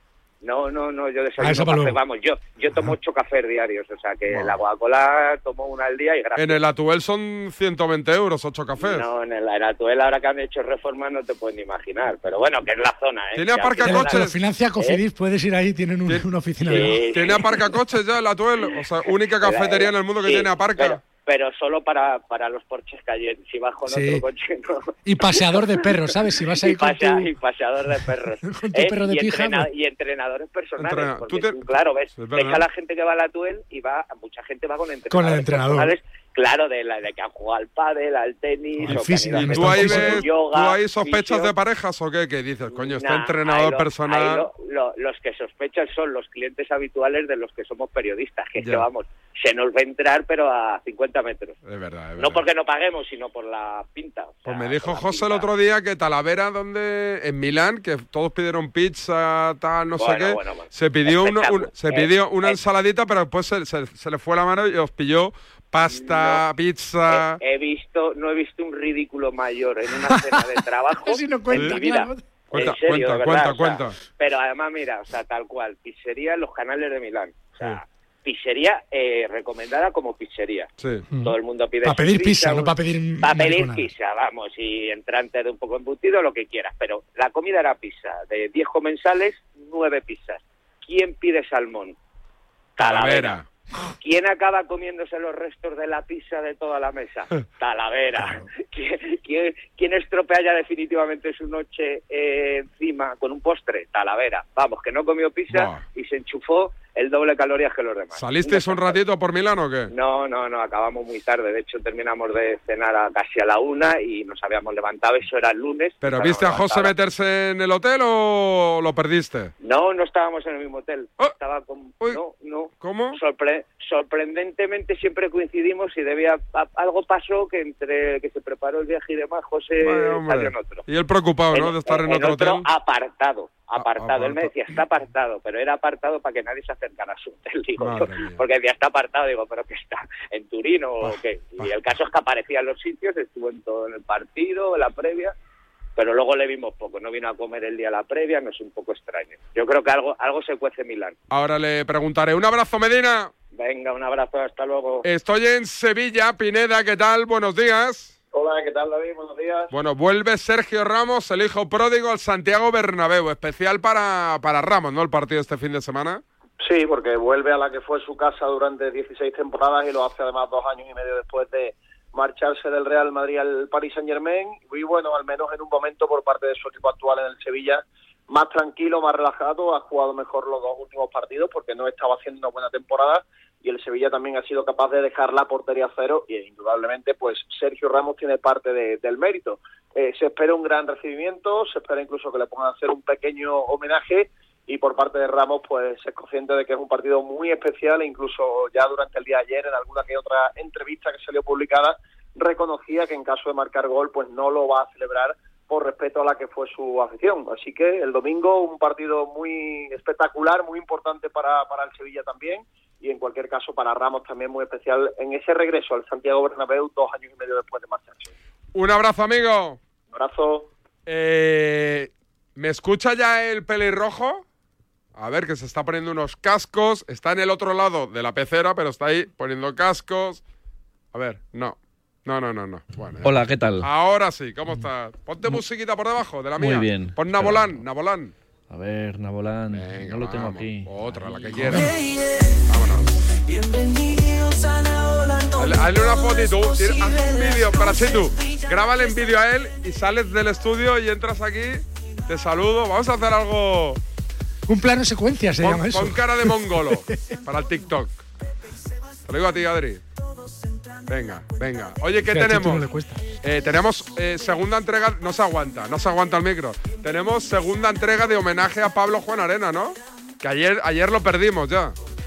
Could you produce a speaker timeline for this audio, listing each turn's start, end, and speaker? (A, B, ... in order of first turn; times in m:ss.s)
0:00.4-0:06.6 A
0:01.4-0:02.0 B
0:04.3-0:04.6 C
0:06.4-0:09.1 C
0:08.8-0:15.0 A
0:13.4-0:14.3 C
0:13.8-0:17.1 B
0:16.1-0:21.0 C
0:16.7-0:17.7 A
0:19.4-0:41.5 A
0:23.8-0:24.2 B
0:25.0-0:27.3 B
0:28.0-0:29.7 B
0:30.8-0:32.6 C
0:35.1-0:35.9 B
0:38.8-0:40.3 B
0:38.9-0:44.4 C
0:42.7-0:51.5 A
0:48.6-0:48.8 C
0:51.6-0:52.4 C
0:52.2-0:55.5 A
0:54.4-1:07.4 C
1:00.0-1:02.6 A
1:05.9-1:06.4 A
1:07.1-1:20.7 A
1:10.0-1:12.4 B
1:11.5-1:11.8 C
1:12.5-1:14.0 C
1:20.8-1:21.0 C
1:21.1-1:23.9 B
1:21.2-1:31.9 A
1:32.8-1:33.4 A
1:32.8-1:33.4 C
1:34.0-1:49.0 A
1:45.5-1:45.8 C
1:48.2-1:49.9 C
1:49.9-1:56.9 A
1:56.0-1:59.5 C
1:59.6-2:10.8 A
2:02.8-2:03.2 C
2:09.8-2:12.7 C
2:11.5-2:25.3 A
2:13.8-2:14.6 C
2:17.8-2:18.4 C
2:21.0-2:21.7 C
2:26.0-2:31.1 A
2:31.3-2:33.3 C
2:33.6-2:35.0 A
2:35.0-2:38.1 C
2:38.3-2:39.7 D
2:39.7-2:46.2 C
2:46.6-3:38.3 D
3:38.7-3:39.8 C
3:40.1-3:40.7 D
3:41.1-3:44.4 C
3:45.2-3:50.4 C
3:51.1-3:58.3 C
3:53.2-3:53.9 E
3:56.6-3:57.7 E
3:58.7-4:01.8 E
3:59.7-4:01.9 C
4:02.7-4:03.1 C
4:05.6-4:14.0 C
4:14.7-4:17.0 B
4:15.6-4:18.2 C
4:19.3-4:20.0 C
4:21.1-4:22.8 C
4:22.3-4:23.2 B
4:23.4-4:31.9 C